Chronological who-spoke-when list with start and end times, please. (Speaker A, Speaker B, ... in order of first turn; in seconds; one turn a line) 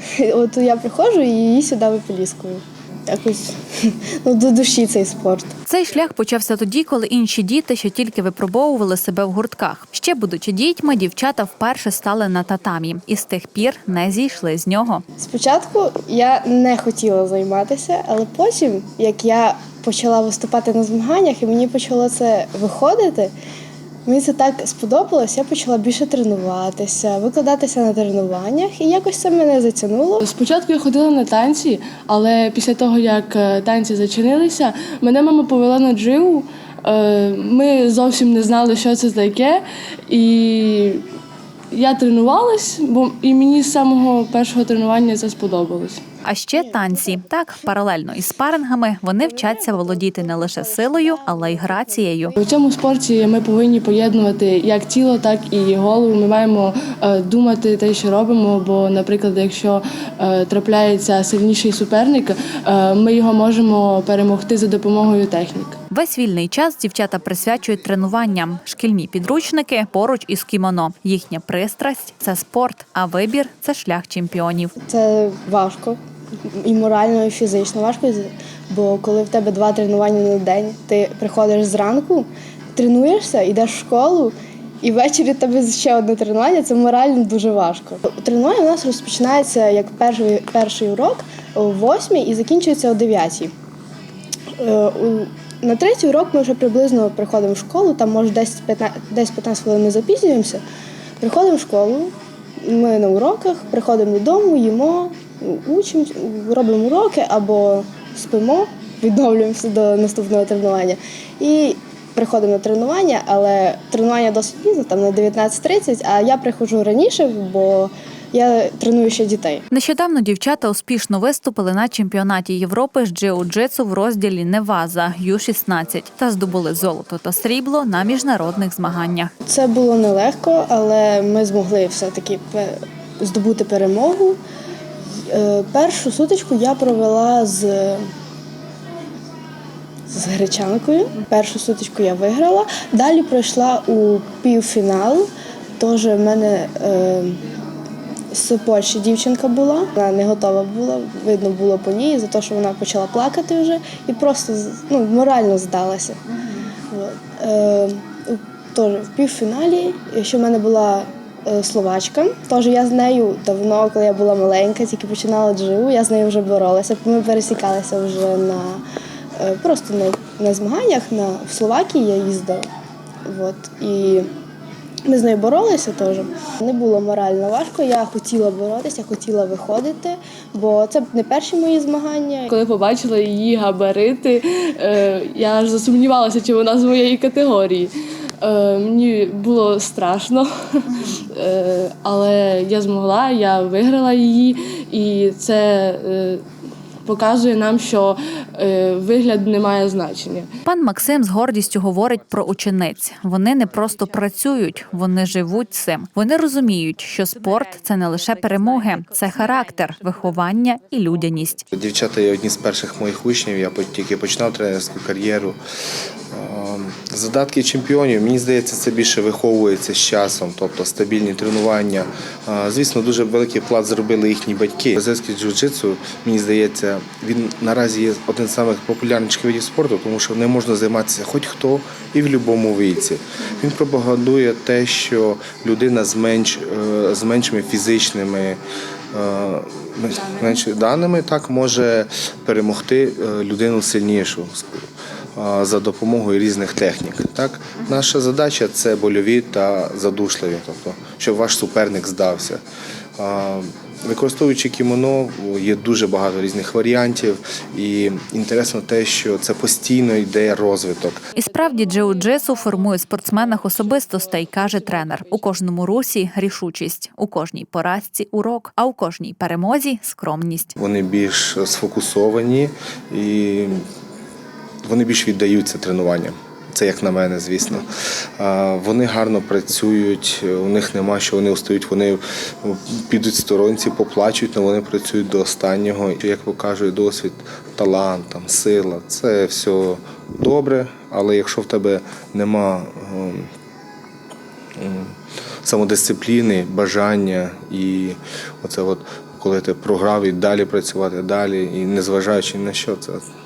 Speaker A: 0.1-5.5
Speaker B: 5.7-15.0
Speaker A: 15.2-23.3
Speaker A: 24.1-30.2
Speaker C: 30.2-41.1
Speaker C: 41.7-46.0
Speaker B: 46.2-52.4
Speaker A: 46.5-47.3
Speaker A: 49.2-52.5
Speaker C: 52.4-65.8
Speaker B: 65.9-74.7
Speaker A: 74.9-76.0
Speaker A: 76.6-93.5
Speaker A: 94.6-100.6
Speaker A: 101.2-119.6
Speaker B: 119.7-129.3
Speaker A: 129.4-134.4
Speaker A: 135.3-138.1
Speaker A: 140.1-145.3
Speaker A: 145.8-147.4
Speaker A: 148.3-156.2
Speaker A: 156.9-168.8
Speaker A: 169.3-172.6
Speaker A: 173.2-174.3
Speaker A: 175.1-182.5
Speaker C: 182.5-196.4
Speaker C: 197.0-200.5
Speaker B: 200.6-211.6
Speaker D: 211.7-215.6
Speaker D: 216.3-238.6
Speaker D: 239.1-244.8
Speaker D: 245.3-252.6
Speaker D: 253.2-261.3
Speaker B: 261.4-270.8
Speaker D: 270.8-273.9
Speaker D: 274.8-293.5
Speaker D: 294.8-303.2